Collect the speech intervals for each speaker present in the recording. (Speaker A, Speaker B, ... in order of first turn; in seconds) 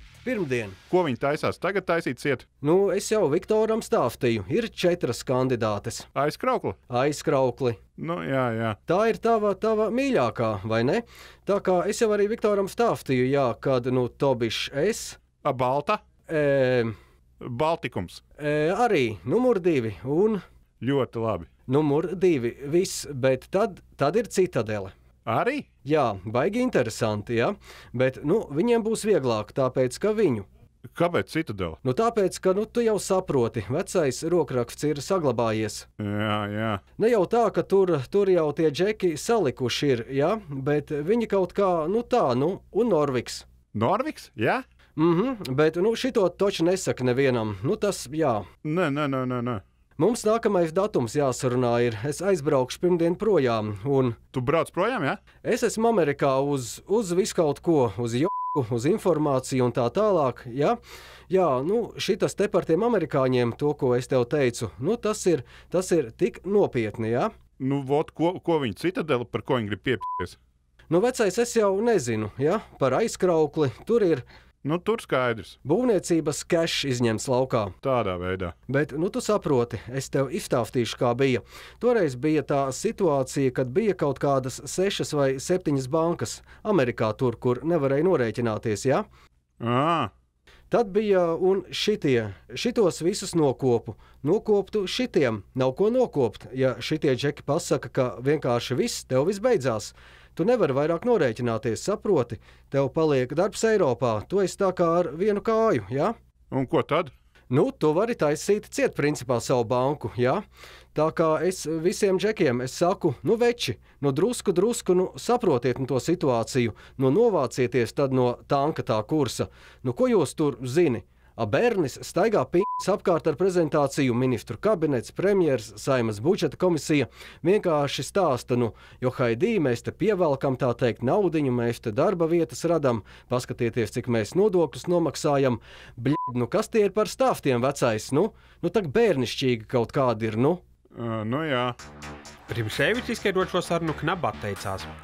Speaker A: 0.2-0.8, 2.6-6.1, 6.9-7.8, 8.9-15.2, 16.3-16.9, 18.4-20.4, 21.7-24.9, 25.9-30.5, 31.8-35.9, 37.0-43.5, 45.0-48.5, 50.0-54.2, 55.4-60.8, 61.3-67.3, 70.9-74.2, 75.6-77.8, 78.7-89.0, 90.7-106.2, 107.5-110.4, 111.0-140.6
Speaker B: 0.9-2.5, 6.1-6.8, 8.0-8.8, 15.3-16.0, 17.4-18.2, 20.8-21.5, 25.3-25.7, 30.9-31.8, 36.0-36.8, 43.7-44.6, 48.6-49.6, 54.3-55.2, 67.6-70.4, 74.6-75.6, 77.8-78.6, 89.6-90.1, 106.5-107.1, 140.9-141.8
Speaker C: 142.5-144.9